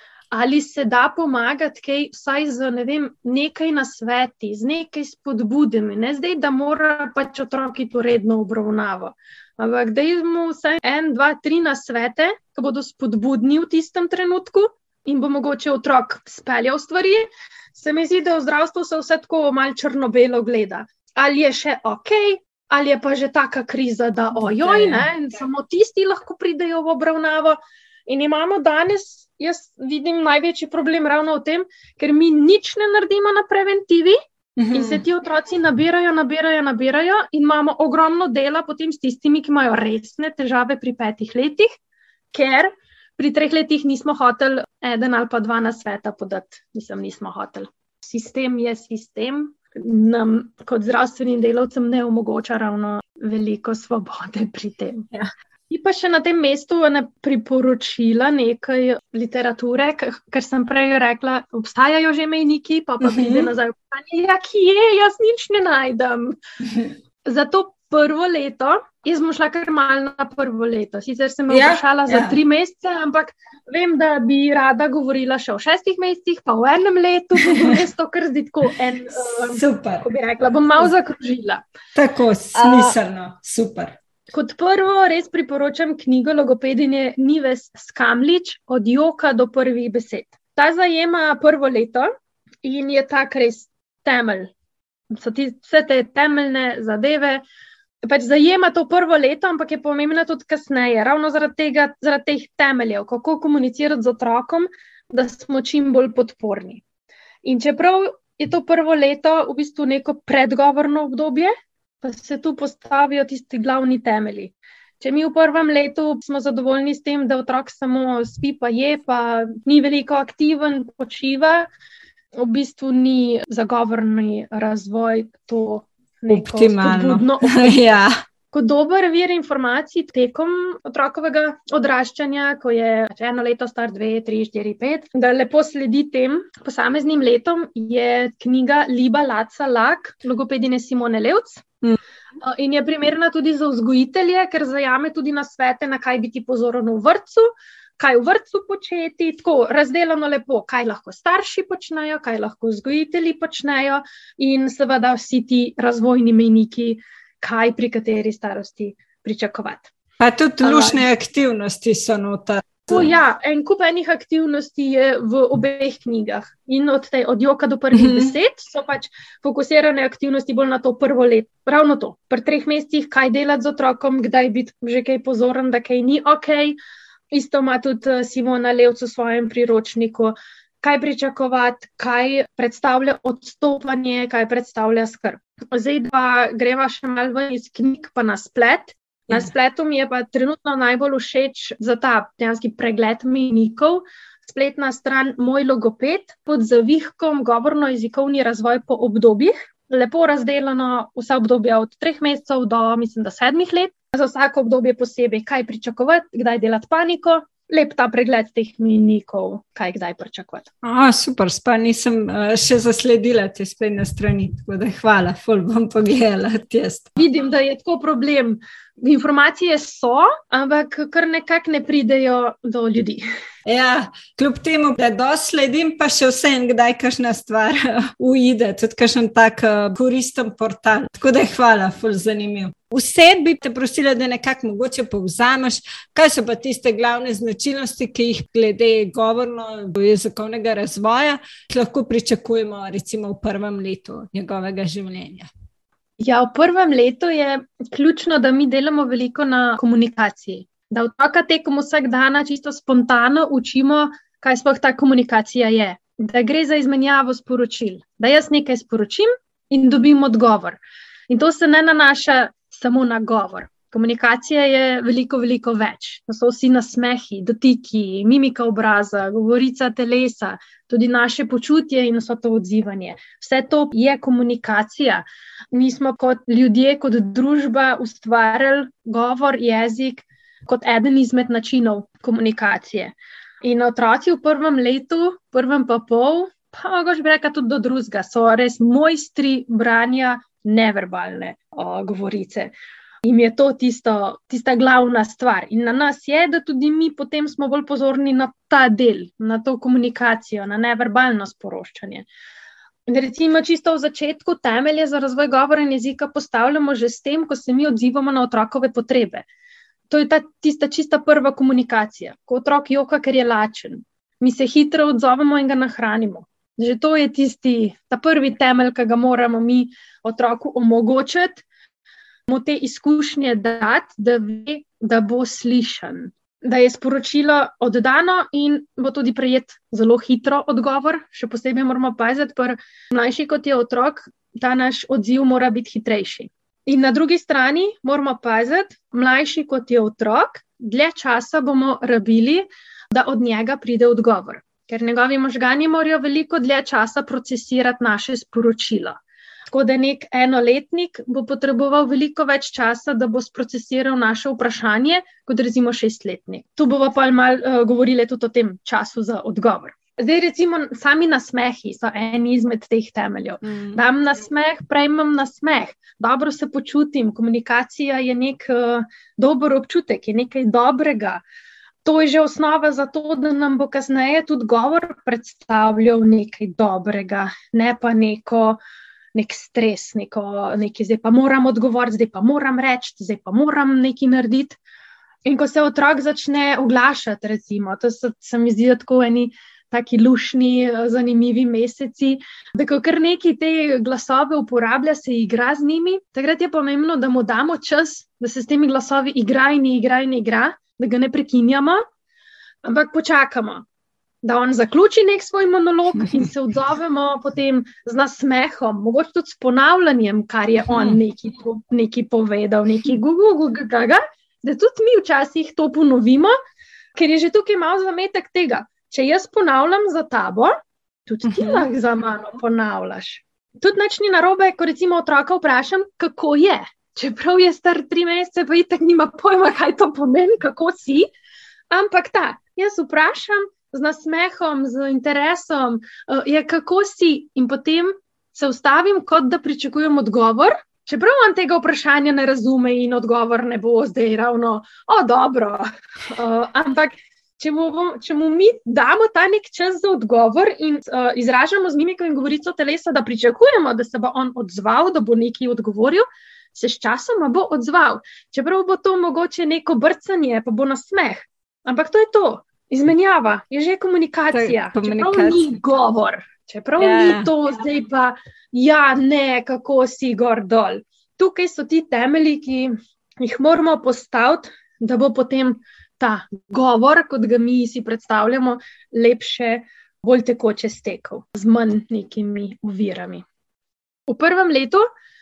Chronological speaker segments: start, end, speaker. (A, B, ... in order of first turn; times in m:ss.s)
0:00.3-0:34.2 A
0:24.4-0:25.0 B
0:34.6-0:35.0 B
0:34.7-0:41.7 A
0:42.3-0:55.1 A
0:55.7-1:06.4 A
1:03.0-1:03.5 B
1:07.2-1:21.6 A
1:11.5-1:12.4 B
1:19.3-1:20.0 B
1:21.9-1:24.0 B
1:22.6-1:22.9 A
1:24.3-1:32.1 A
1:32.6-1:34.5 A
1:35.1-1:37.4 A
1:38.0-1:46.8 A
1:47.4-2:01.7 A
2:02.3-2:07.9 A
2:06.3-2:08.1 B
2:08.5-2:21.7 A
2:22.4-2:27.5 A
2:28.0-2:39.9 A
2:40.2-2:43.1 B
2:40.6-2:41.0 A
2:42.9-2:56.8 A
2:47.9-2:48.3 B
2:57.3-3:30.7 A
3:30.8-3:37.2 B
3:37.2-3:43.2 A
3:43.6-4:05.5 B
4:06.2-4:20.8 A
4:21.3-4:52.7 A
4:53.2-5:02.3 A
5:03.1-5:09.4 A
5:10.1-5:21.6 A
5:22.5-5:49.2 A
5:49.7-6:11.4 A
6:03.7-6:04.0 B
6:12.0-6:18.8 A
6:19.3-6:24.8 A
6:25.4-6:42.0 A
6:42.8-6:43.8 A
6:44.4-6:56.5 A
6:50.9-6:51.2 B
6:57.1-7:00.7 A
7:01.2-7:11.3 A
7:01.5-7:01.8 B
7:11.9-8:03.4 A
7:44.5-7:45.8 B
7:47.0-7:47.5 B
8:04.3-8:05.0 A